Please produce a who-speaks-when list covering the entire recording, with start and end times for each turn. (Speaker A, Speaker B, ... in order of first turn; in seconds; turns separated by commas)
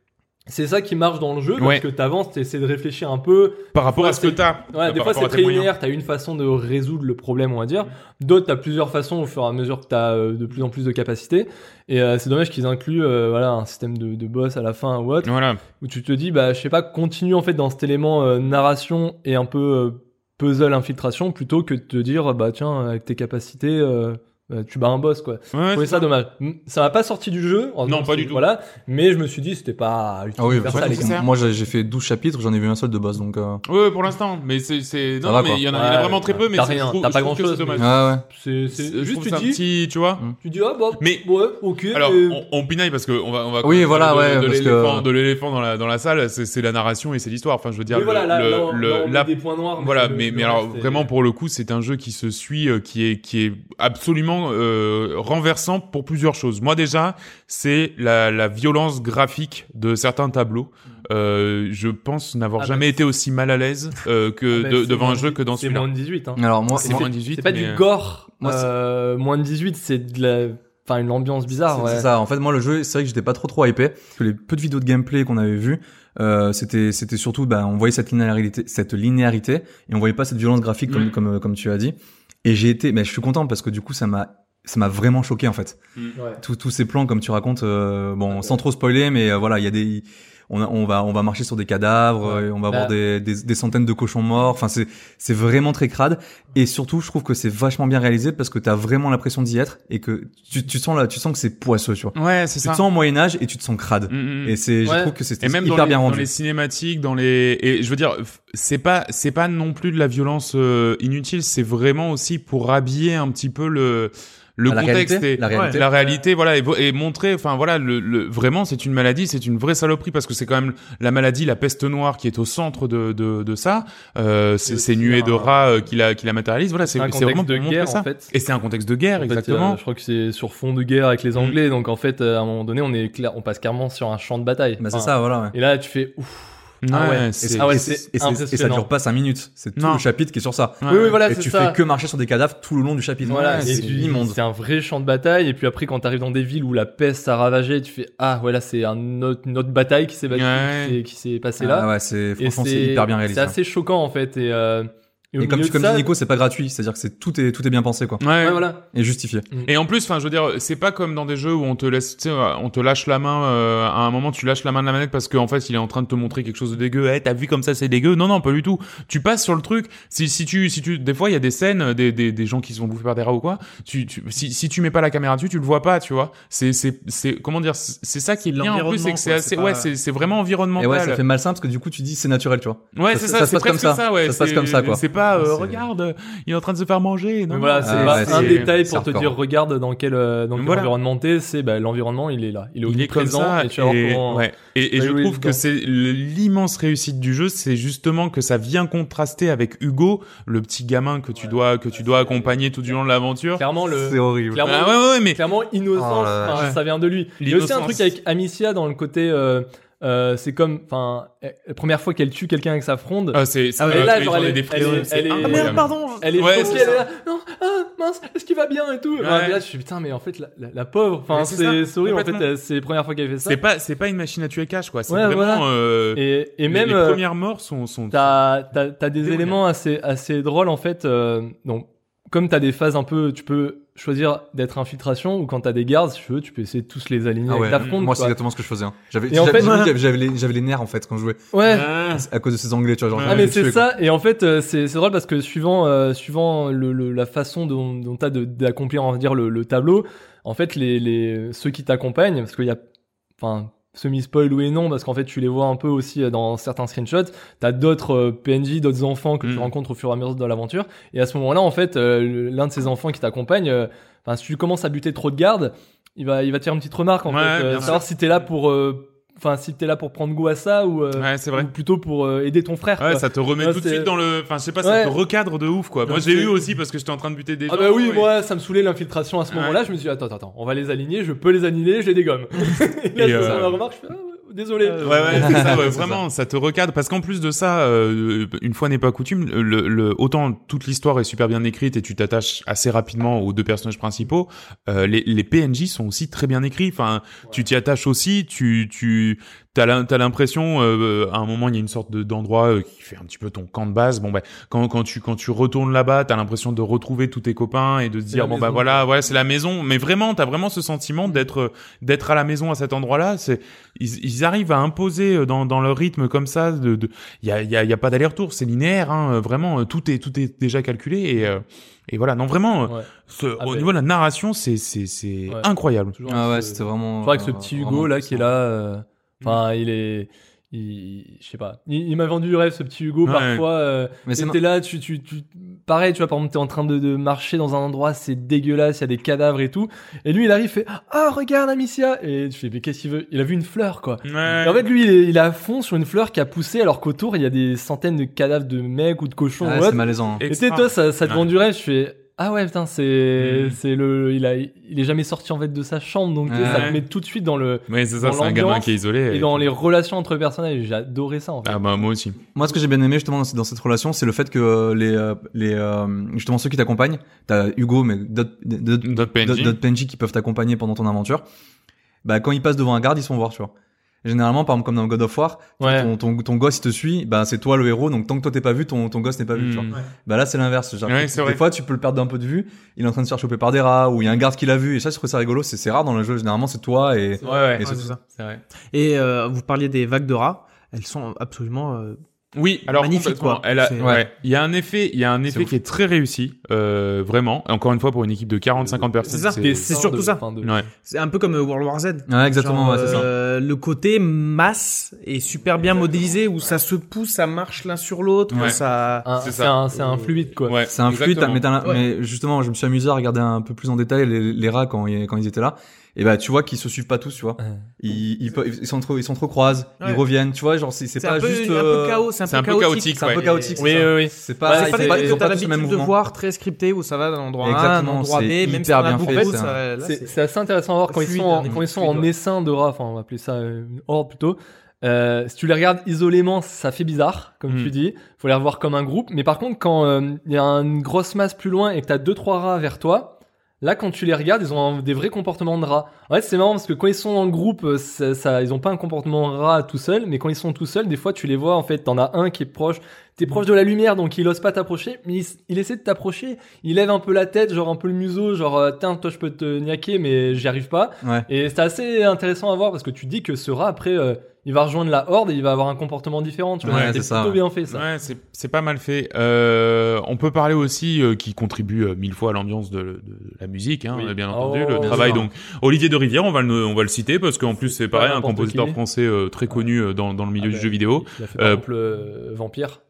Speaker A: 0.5-31.2, Speaker B: 1.6-1.8, Speaker B: 3.7-5.7, Speaker B: 15.2-15.6, Speaker B: 25.5-26.1, Speaker B: 27.9-28.4, Speaker C: 30.4-33.6, Speaker B: 30.6-31.3, Speaker B: 33.6-37.9, Speaker C: 35.2-35.6, Speaker A: 35.7-39.6, Speaker C: 37.8-38.2, Speaker B: 38.8-40.2, Speaker A: 40.4-42.4, Speaker B: 41.0-41.3, Speaker B: 41.9-65.9, Speaker C: 43.6-45.1, Speaker A: 47.9-51.1, Speaker A: 62.6-62.9, Speaker A: 64.5-72.1, Speaker C: 66.4-67.1, Speaker B: 66.8-67.8, Speaker C: 68.4-68.7, Speaker C: 71.7-85.8, Speaker C: 86.4-106.3, Speaker A: 92.2-92.9, Speaker B: 102.2-102.8, Speaker B: 104.1-104.6, Speaker A: 104.8-105.1, Speaker B: 105.4-129.8, Speaker C: 114.7-115.9, Speaker D: 115.5-115.8, Speaker A: 124.7-125.5, Speaker A: 126.9-128.3, Speaker A: 129.2-138.9, Speaker C: 134.8-135.6, Speaker B: 136.8-137.8, Speaker C: 137.4-144.4, Speaker B: 139.8-140.0, Speaker B: 140.8-141.1, Speaker A: 140.8-141.8, Speaker A: 143.3-156.1, Speaker B: 143.5-144.0, Speaker B: 150.3-151.0, Speaker C: 151.6-153.6, Speaker C: 155.4-158.2, Speaker B: 158.2-158.7, Speaker A: 158.4-158.8, Speaker C: 158.9-159.5, Speaker B: 159.7-181.2, Speaker D: 178.4-179.9, Speaker C: 180.8-185.8, Speaker B: 182.9-188.7, Speaker A: 187.5-195.6, Speaker C: 187.8-189.4, Speaker B: 190.6-190.9, Speaker B: 192.9-203.6, Speaker A: 201.4-202.5, Speaker A: 203.6-223.6, Speaker C: 203.9-204.7, Speaker B: 204.6-205.4, Speaker C: 205.9-206.7, Speaker D: 206.5-206.8, Speaker B: 207.4-208.1, Speaker B: 213.3-217.0, Speaker D: 213.8-217.1, Speaker B: 219.2-219.6, Speaker B: 221.3-222.4, Speaker B: 223.5-228.4, Speaker A: 225.1-227.2, Speaker A: 228.1-238.4, Speaker B: 229.2-229.6, Speaker C: 237.5-243.9, Speaker A: 239.3-239.9, Speaker D: 239.5-239.9, Speaker A: 241.5-241.9, Speaker B: 241.6-242.2, Speaker B: 243.1-243.5, Speaker A: 243.2-252.8, Speaker A: 253.4-274.1, Speaker B: 259.4-259.7, Speaker B: 267.3-268.0, Speaker B: 271.2-271.7, Speaker B: 273.0-278.3, Speaker A: 274.8-275.2, Speaker A: 276.1-276.5, Speaker A: 277.7-285.9, Speaker B: 279.5-279.8, Speaker B: 283.1-283.8, Speaker C: 283.4-283.7, Speaker D: 284.8-285.9, Speaker B: 285.0-326.1, Speaker C: 285.4-286.2, Speaker A: 308.3-309.0, Speaker A: 322.9-323.9, Speaker A: 325.5-361.8, Speaker C: 326.3-328.5, Speaker B: 333.3-333.6, Speaker C: 334.3-334.6, Speaker B: 344.3-344.8, Speaker C: 349.6-350.4, Speaker B: 350.4-351.4, Speaker B: 353.4-353.8, Speaker C: 356.5-356.9, Speaker B: 356.6-357.0, Speaker B: 357.9-359.7, Speaker B: 361.6-362.4, Speaker C: 362.6-371.4, Speaker B: 369.0-369.8, Speaker C: 372.2-373.7, Speaker C: 374.2-388.6, Speaker A: 375.8-376.1, Speaker B: 379.6-379.9, Speaker B: 381.1-381.6, Speaker B: 387.4-387.9, Speaker D: 387.4-388.2, Speaker D: 388.9-392.2, Speaker B: 392.6-400.0, Speaker D: 392.9-394.2, Speaker C: 394.0-394.2, Speaker D: 399.2-400.4, Speaker A: 399.3-400.8, Speaker B: 400.6-400.9, Speaker D: 401.0-409.3, Speaker C: 402.3-403.3, Speaker B: 408.5-408.8, Speaker A: 409.2-410.8, Speaker B: 409.4-409.8, Speaker B: 410.7-411.6, Speaker C: 410.9-422.3, Speaker D: 421.2-424.1, Speaker B: 422.5-423.5, Speaker C: 423.2-426.1, Speaker A: 423.8-425.5, Speaker D: 424.6-430.3, Speaker C: 427.6-429.7, Speaker A: 429.1-468.1, Speaker D: 431.1-432.3, Speaker C: 466.8-467.6, Speaker B: 466.9-467.2, Speaker B: 467.9-481.8, Speaker A: 474.1-475.4, Speaker C: 475.0-475.5, Speaker A: 477.9-479.0, Speaker A: 480.6-483.0